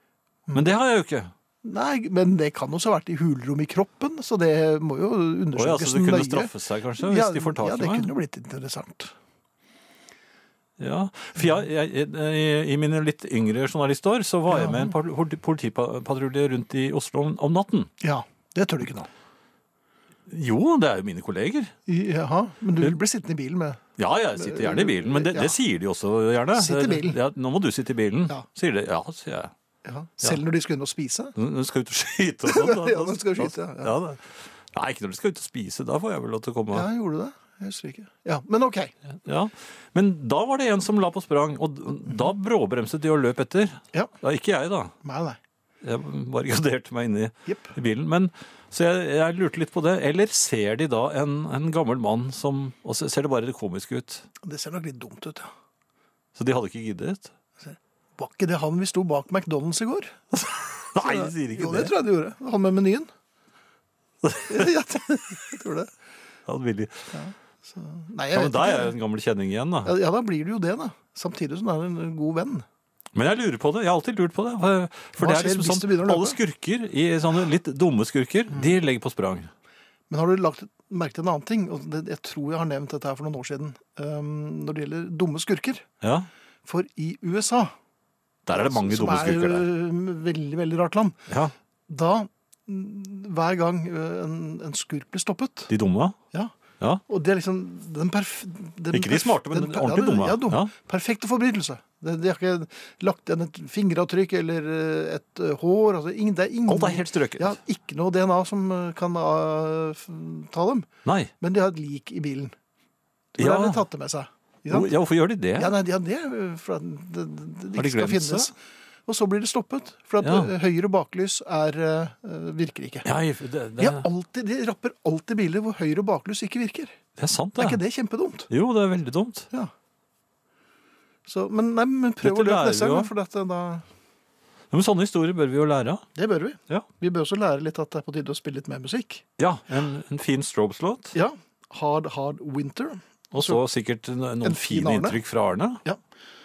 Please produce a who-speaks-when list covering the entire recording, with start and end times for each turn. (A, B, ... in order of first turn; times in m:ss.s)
0:00.5-0:01.3 A
0:01.6-0:09.1 B
0:05.6-0:08.1 A
0:10.8-0:17.9 A
0:14.5-0:14.9 B
0:18.0-0:19.1 B
0:20.3-0:21.7 A
0:21.9-0:23.8 B
0:24.0-0:29.5 A
0:24.4-0:25.6 B
0:26.6-0:27.2 B
0:29.8-0:31.4 B
0:31.4-0:36.9 A
0:32.4-0:34.0 B
0:36.7-0:38.9 B
0:39.2-0:44.9 A
0:45.0-0:45.4 B
0:45.8-0:54.3 A
0:47.5-0:47.7 B
0:54.4-0:55.5 B
0:56.4-0:57.3 A
0:57.6-1:00.2 B
1:00.3-1:01.9 A
1:01.0-1:03.1 B
1:04.2-1:04.6 A
1:04.5-1:05.9 B
1:06.5-1:07.1 A
1:07.1-1:09.0 B
1:08.3-1:09.9 A
1:09.8-1:12.7 B
1:13.2-1:19.5 A
1:15.2-1:16.4 B
1:20.1-1:25.9 B
1:26.0-1:26.3 A
1:26.6-1:27.7 B
1:28.5-1:29.7 A
1:28.5-1:31.2 B
1:31.3-1:31.5 A
1:31.9-1:35.7 B
1:35.7-1:36.2 A
1:37.1-1:50.9 B
1:38.9-1:40.7 A
1:46.7-1:47.6 A
1:51.0-1:51.3 A
1:51.4-1:52.5 B
1:53.4-1:54.9 B
1:53.4-1:53.8 A
1:54.7-1:55.8 A
1:55.6-1:58.6 B
1:57.8-1:58.5 A
1:59.1-2:03.1 B
2:00.2-2:00.5 A
2:03.0-2:04.1 A
2:03.8-2:07.0 B
2:07.2-2:07.8 A
2:07.6-2:08.5 B
2:08.5-2:09.5 A
2:11.3-2:13.8 B
2:12.2-2:13.1 A
2:14.7-2:16.1 A
2:16.2-2:19.2 B
2:19.4-2:21.2 A
2:21.1-2:23.6 B
2:23.3-2:25.8 A
2:24.4-2:25.2 B